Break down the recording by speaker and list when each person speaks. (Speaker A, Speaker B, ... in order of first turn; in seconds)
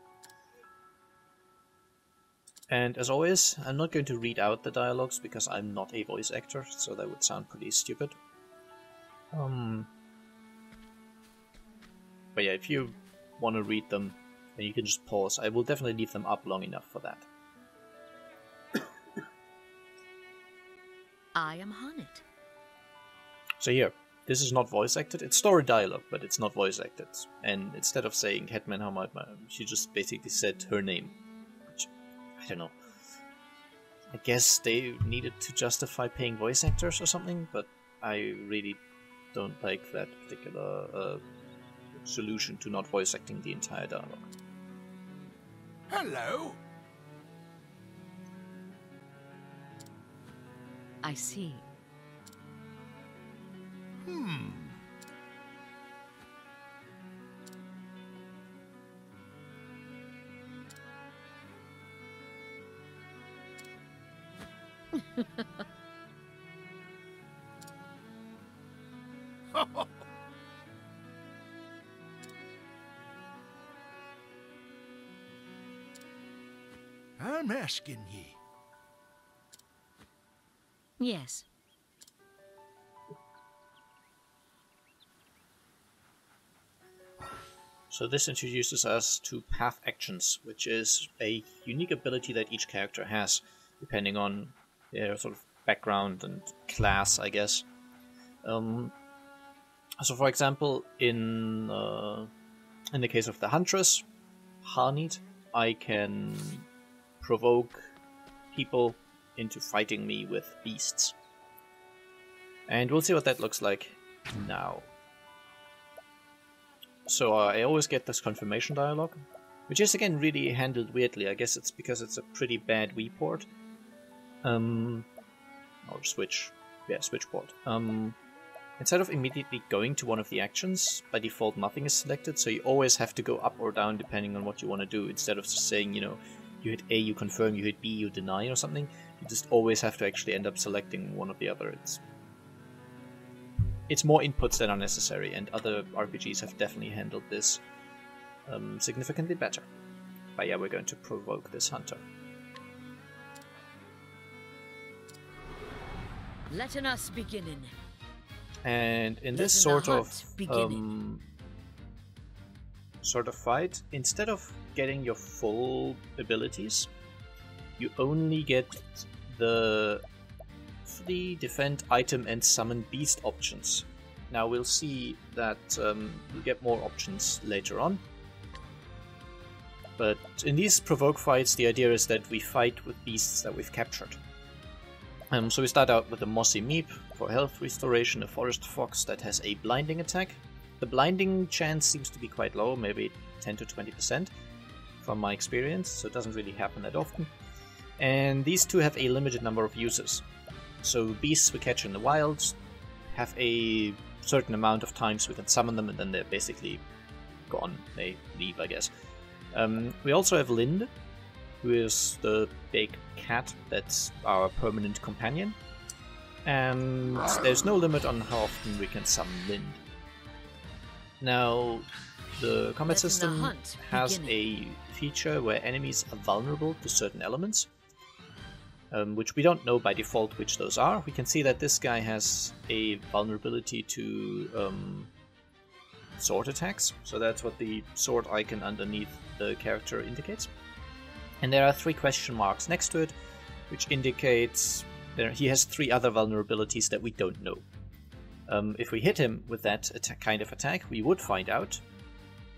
Speaker A: 2.7-8.1, 9.3-9.9, 12.3-17.3, 23.6-31.2, 31.7-32.8, 34.1-38.8, 39.3-41.2, 42.0-44.3, 87.9-97.6, 98.4-98.9, 100.0-102.3, 102.9-104.0, 104.6-106.7, 107.2-107.9, 108.5-111.1, 112.7-114.9, 117.0-123.5, 124.4-125.1, 125.8-128.2, 128.8-142.0, 143.9-147.6, 148.5-149.7, 150.4-152.0, 158.6-161.2, 163.0-166.9, 167.8-170.0, 170.9-178.0, 180.0-184.2, 185.3-194.3, 195.0-197.3, 198.0-200.2, 200.8-202.6, 203.1-206.8, 207.5-208.9, 209.5-210.9, 211.6-215.6, 216.4-219.8, 221.2-227.7, 228.9-235.1, 236.2-240.5, 241.4-243.1, 243.7-247.6, 248.5-251.8
Speaker B: 21.3-22.2, 51.0-51.6, 64.9-65.6, 81.0-81.5, 156.5-157.8, 159.3-160.8, 222.9-224.3
Speaker C: 45.9-46.6, 54.0-54.8, 69.5-69.9, 77.2-78.4